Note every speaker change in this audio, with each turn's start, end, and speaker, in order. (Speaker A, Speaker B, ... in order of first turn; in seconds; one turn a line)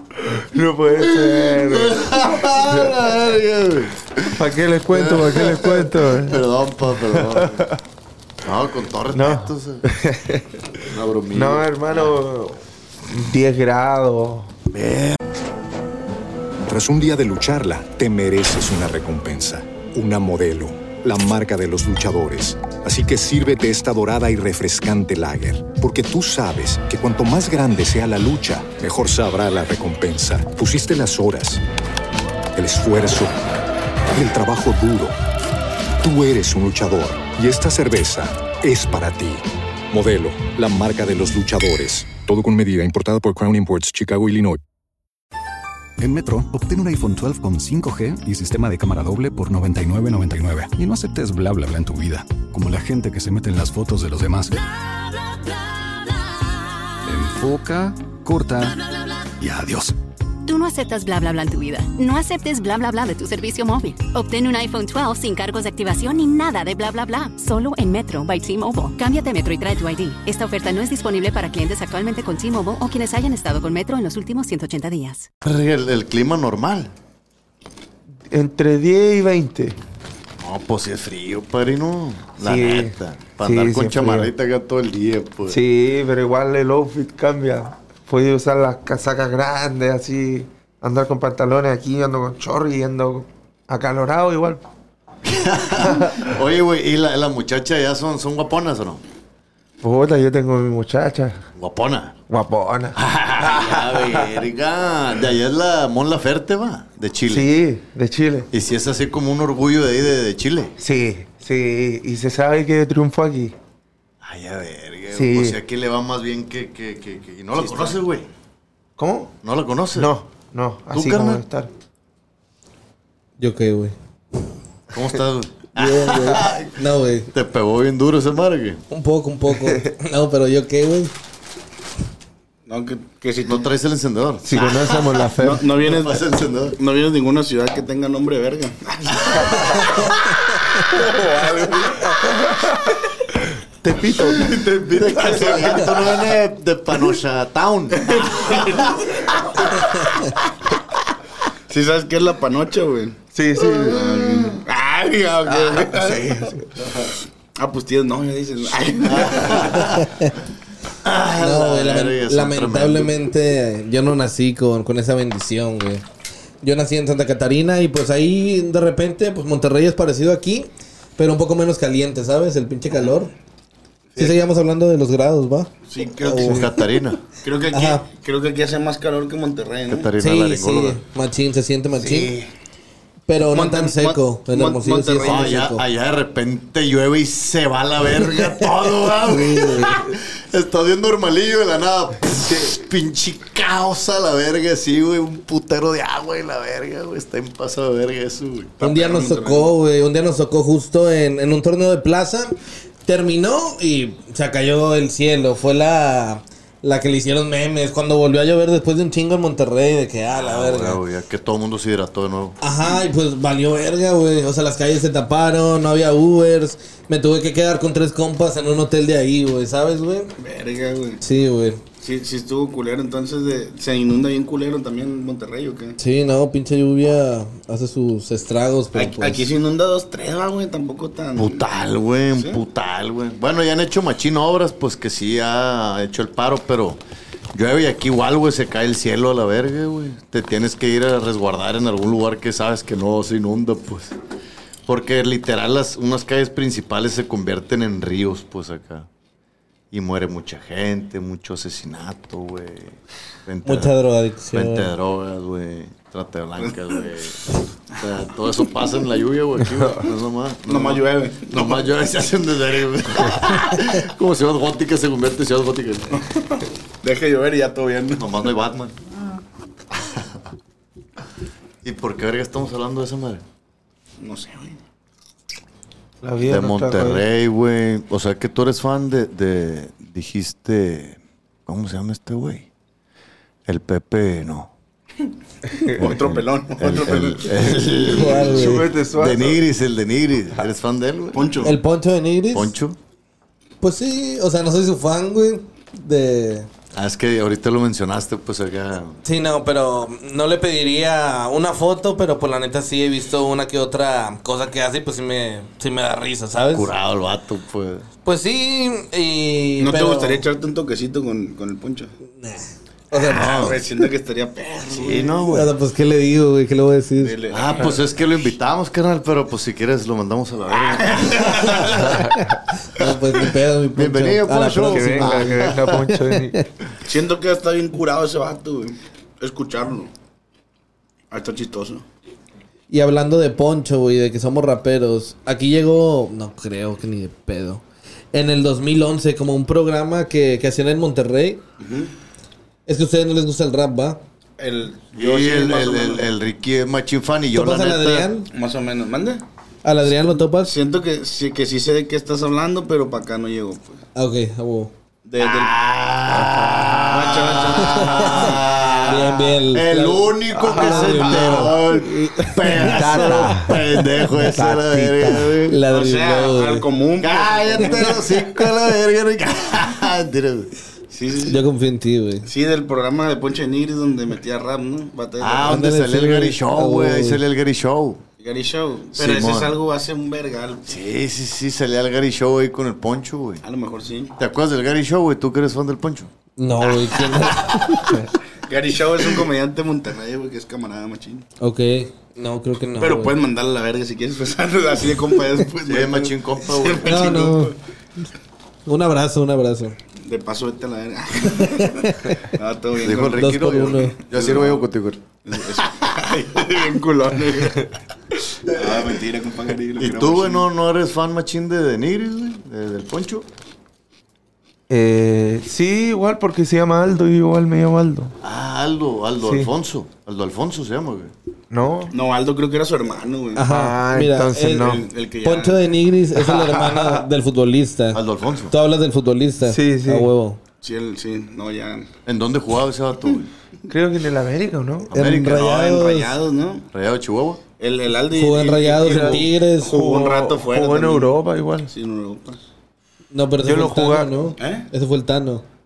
Speaker A: 0.3-2.9
Speaker B: 1.1-4.4
Speaker A: 4.3-6.4
Speaker B: 4.9-7.7
Speaker A: 7.1-7.7
Speaker B: 8.4-9.8
Speaker A: 9.1-10.5
Speaker B: 10.9-11.7
Speaker A: 11.3-14.5
Speaker B: 14.7-15.2
Speaker C: 16.6-31.6
Speaker C: 32.5-33.4
Speaker C: 34.1-35.1
Speaker C: 36.0-44.6
Speaker D: 46.0-54.6
Speaker D: 57.0-58.8
Speaker D: 59.4-59.9
Speaker E: 60.5-75.3
Speaker B: 75.4-76.9
Speaker A: 78.3-79.8
Speaker B: 80.4-85.6
Speaker A: 82.4-84.3
Speaker A: 85.5-94.6
Speaker B: 95.2-99.0
Speaker A: 95.9-96.1
Speaker A: 99.8-101.4
Speaker B: 101.5-102.2
Speaker A: 102.3-104.3
Speaker B: 103.0-107.5
Speaker A: 107.3-108.5
Speaker B: 108.5-110.7
Speaker A: 110.8-113.5
Speaker B: 114.2-118.3
Speaker A: 115.1-115.6
Speaker F: 117.5-118.0
Speaker A: 119.0-119.3
Speaker B: 119.4-120.1
Speaker A: 119.9-121.7
Speaker B: 120.9-121.4
Speaker G: 123.4-123.9
Speaker B: 124.9-126.8
Speaker G: 125.8-127.3
Speaker B: 127.3-128.8
Speaker G: 128.9-131.1
Speaker F: 132.7-133.7
Speaker B: 133.4-134.9
Speaker A: 134.4-135.7
Speaker F: 135.3-136.2
Speaker B: 135.8-136.8
Speaker F: 136.8-139.8
Speaker A: 143.8-145.9
Speaker B: 144.5-149.8
Speaker F: 151.7-153.2
Speaker A: 153.3-154.0
Speaker B: 153.9-154.6
Speaker F: 153.9-156.5
Speaker A: 156.0-156.5
Speaker B: 156.8-157.1
Speaker F: 157.6-159.7
Speaker B: 159.1-160.1
Speaker G: 160.0-160.3
Speaker B: 161.0-163.1
Speaker G: 161.3-166.0
Speaker G: 166.6-173.3
Speaker G: 174.2-176.8
Speaker F: 175.9-176.7
Speaker B: 176.4-177.2
Speaker F: 177.4-180.1
Speaker G: 177.7-178.0
Speaker B: 179.9-181.0
Speaker G: 180.2-182.3
Speaker A: 182.0-182.3
Speaker G: 183.3-185.8
Speaker F: 183.5-185.6
Speaker B: 185.2-198.8
Speaker G: 189.2-190.1
Speaker G: 198.8-211.0
Speaker F: 198.8-199.7
Speaker B: 210.3-212.6
Speaker G: 212.6-220.3
Speaker F: 220.4-221.2
Speaker G: 221.2-221.8
Speaker F: 222.0-226.0
Speaker G: 226.0-229.5
Speaker F: 228.9-231.6
Speaker B: 231.3-237.0
Speaker F: 232.3-232.6
Speaker B: 237.5-244.1
Speaker B: 244.9-249.1
Speaker B: 249.9-253.9
Speaker G: 253.6-254.9
Speaker B: 254.5-266.2
Speaker F: 256.6-257.0
Speaker F: 260.7-261.9
Speaker F: 266.1-268.3
Speaker B: 268.2-269.0
Speaker B: 271.8-273.4
Speaker F: 274.2-274.8
Speaker A: 276.2-277.2
Speaker B: 276.4-282.7
Speaker B: 283.6-284.7
Speaker F: 286.0-287.8
Speaker B: 286.0-291.6
Speaker G: 288.0-288.9
Speaker A: 288.5-289.6
Speaker F: 291.3-291.8
Speaker G: 291.6-292.7
Speaker B: 292.5-293.0
Speaker G: 293.8-296.7
Speaker B: 296.9-299.2
Speaker G: 299.2-306.9
Speaker B: 306.7-308.1
Speaker G: 308.2-310.4
Speaker F: 309.8-312.1
Speaker G: 312.4-313.8
Speaker F: 313.3-315.5
Speaker B: 313.3-313.8
Speaker B: 314.9-315.7
Speaker G: 315.5-317.4
Speaker F: 317.2-318.0
Speaker B: 317.5-322.4
Speaker F: 320.9-322.1
Speaker G: 322.9-325.7
Speaker B: 323.9-325.9
Speaker A: 324.9-326.6
Speaker F: 327.0-330.1
Speaker F: 331.3-332.0
Speaker G: 332.9-341.6
Speaker F: 341.8-342.1
Speaker G: 342.9-344.2
Speaker F: 344.6-346.3
Speaker B: 345.1-348.3
Speaker G: 347.5-348.5
Speaker F: 348.5-349.4
Speaker G: 349.8-350.7
Speaker F: 350.6-354.0
Speaker G: 354.1-354.9
Speaker F: 355.2-355.8
Speaker B: 355.4-365.8
Speaker A: 356.3-357.1
Speaker F: 357.1-359.1
Speaker G: 357.8-363.5
Speaker A: 360.6-361.2
Speaker A: 362.8-363.8
Speaker A: 364.5-365.6
Speaker G: 365.7-366.9
Speaker F: 365.9-368.3
Speaker B: 367.2-370.7
Speaker F: 371.1-371.6
Speaker G: 371.4-372.5
Speaker F: 372.4-375.8
Speaker B: 375.4-378.2
Speaker G: 375.6-377.4
Speaker F: 378.4-381.0
Speaker B: 379.1-379.8
Speaker B: 380.9-383.6
Speaker F: 383.6-384.4
Speaker B: 384.4-386.3
Speaker G: 386.6-388.2
Speaker F: 386.8-387.7
Speaker F: 388.7-391.5
Speaker G: 391.6-393.4
Speaker F: 393.0-397.7
Speaker B: 395.8-397.4
Speaker G: 397.0-397.7
Speaker G: 398.9-399.9
Speaker F: 400.2-403.5
Speaker G: 401.5-402.3
Speaker B: 403.0-405.8
Speaker G: 403.3-404.2
Speaker F: 404.2-404.9
Speaker F: 405.4-407.9
Speaker F: 408.7-410.7
Speaker B: 410.0-413.5
Speaker A: 414.9-418.4
Speaker B: 418.4-421.3
Speaker A: 419.4-419.7
Speaker A: 421.7-422.1
Speaker F: 422.1-423.7
Speaker G: 423.6-430.6
Speaker A: 423.6-425.0
Speaker F: 424.8-425.8
Speaker B: 428.1-428.7
Speaker A: 429.6-430.3
Speaker F: 430.8-432.1
Speaker B: 432.2-433.5
Speaker A: 433.9-435.1
Speaker B: 435.1-435.8
Speaker G: 435.1-436.3
Speaker F: 435.5-436.9
Speaker B: 436.9-437.6
Speaker F: 437.8-441.4
Speaker G: 438.3-440.1
Speaker A: 439.0-441.9
Speaker F: 441.9-442.6
Speaker G: 443.3-445.6
Speaker A: 443.6-444.5
Speaker F: 444.6-444.9